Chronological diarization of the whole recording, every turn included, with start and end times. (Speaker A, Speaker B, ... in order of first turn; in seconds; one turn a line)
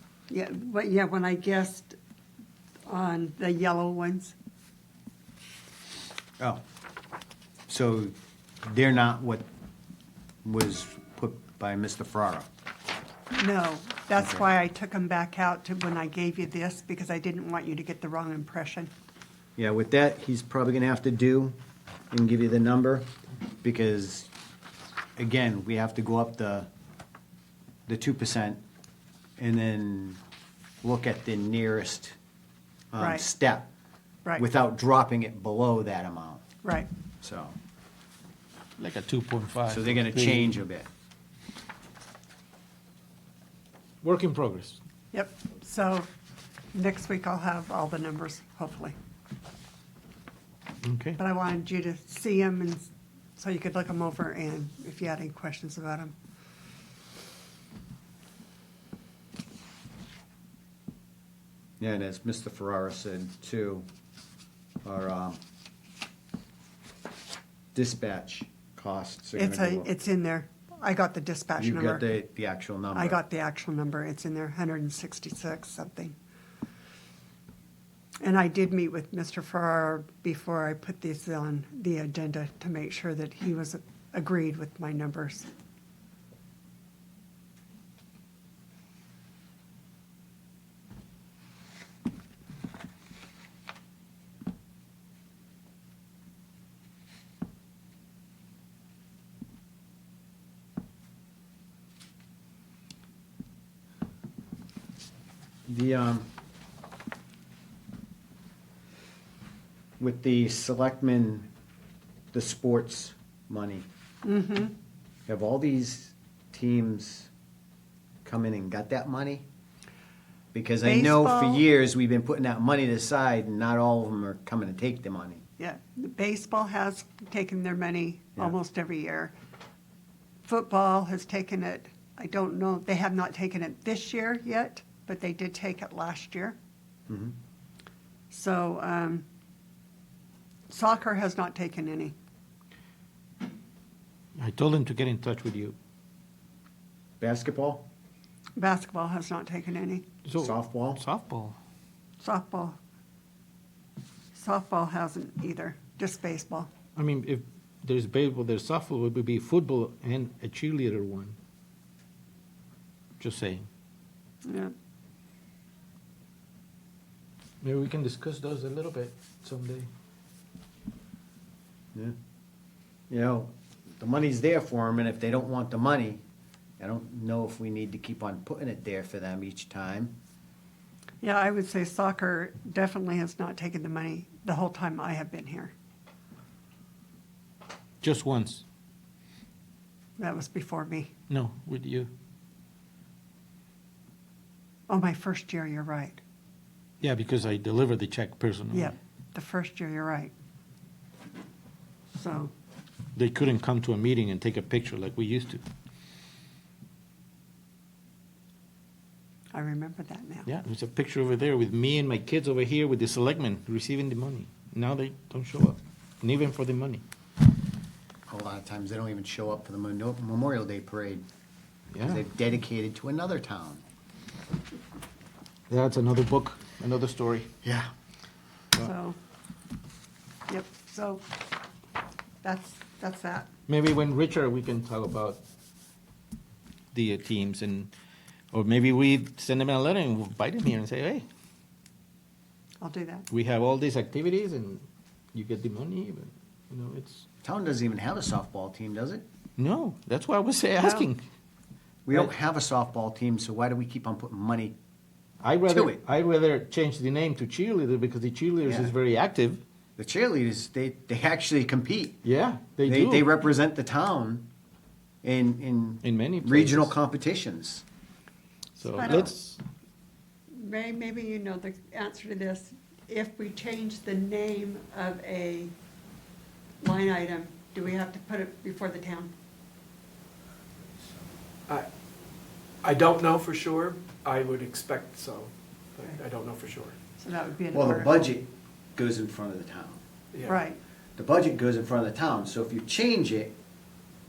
Speaker A: 0.3-2.0
Speaker A: 2.9-4.3
Speaker B: 7.7-9.4
Speaker B: 10.4-12.5
Speaker A: 13.3-18.9
Speaker B: 14.2-14.4
Speaker B: 19.6-21.6
Speaker B: 22.1-23.1
Speaker B: 23.6-24.3
Speaker B: 25.2-26.7
Speaker B: 27.9-28.6
Speaker B: 29.4-30.2
Speaker B: 30.8-32.1
Speaker B: 32.9-33.7
Speaker A: 33.0-33.2
Speaker B: 34.4-36.4
Speaker A: 36.6-36.9
Speaker B: 37.2-37.5
Speaker C: 38.8-40.5
Speaker B: 39.7-40.9
Speaker C: 44.0-44.8
Speaker A: 45.1-46.1
Speaker A: 46.7-48.9
Speaker C: 50.8-51.2
Speaker A: 51.2-56.1
Speaker B: 61.8-63.8
Speaker B: 64.8-65.4
Speaker B: 67.7-69.9
Speaker A: 69.3-72.0
Speaker B: 71.6-73.2
Speaker A: 72.9-76.1
Speaker A: 78.2-85.5
Speaker B: 105.7-106.3
Speaker B: 110.0-111.5
Speaker B: 112.3-113.9
Speaker A: 114.2-114.7
Speaker B: 115.3-117.3
Speaker B: 118.2-119.5
Speaker B: 120.5-125.4
Speaker A: 120.8-121.6
Speaker A: 125.6-129.3
Speaker A: 130.4-136.6
Speaker B: 137.1-137.3
Speaker A: 138.3-139.2
Speaker A: 140.7-142.1
Speaker C: 144.4-145.7
Speaker B: 147.2-147.9
Speaker A: 148.6-150.1
Speaker C: 150.2-151.6
Speaker B: 150.4-151.0
Speaker A: 152.2-152.8
Speaker A: 154.3-156.7
Speaker C: 156.9-161.3
Speaker C: 163.2-163.7
Speaker A: 164.4-164.7
Speaker C: 167.6-169.9
Speaker B: 173.1-176.2
Speaker B: 176.8-180.2
Speaker A: 181.2-185.7
Speaker C: 188.0-188.6
Speaker A: 190.2-191.1
Speaker C: 191.3-192.1
Speaker A: 194.9-196.2
Speaker C: 197.0-198.9
Speaker A: 198.7-200.3
Speaker A: 202.1-202.5
Speaker C: 203.1-205.6
Speaker A: 209.5-210.5
Speaker C: 210.4-217.0
Speaker B: 218.3-221.2
Speaker C: 221.9-222.2
Speaker B: 222.0-223.8
Speaker C: 225.7-227.5
Speaker B: 227.6-227.9
Speaker A: 228.8-229.2
Speaker A: 230.5-231.2
Speaker A: 232.4-233.5
Speaker C: 233.7-235.4
Speaker C: 236.9-237.9
Speaker C: 238.5-241.2
Speaker A: 242.8-243.3
Speaker C: 243.3-247.2
Speaker B: 247.4-249.2
Speaker C: 249.6-251.2
Speaker B: 252.1-254.7
Speaker C: 255.4-259.6
Speaker B: 255.7-256.0
Speaker B: 258.6-258.9
Speaker B: 260.0-262.2
Speaker C: 262.2-263.3
Speaker B: 262.9-264.5
Speaker B: 265.2-267.8
Speaker C: 266.0-266.9
Speaker C: 268.8-269.6
Speaker A: 268.9-269.3
Speaker A: 270.5-275.7
Speaker A: 276.8-279.3
Speaker D: 282.8-286.9
Speaker A: 287.2-288.2
Speaker B: 287.7-290.0
Speaker A: 290.4-290.8
Speaker B: 291.2-293.5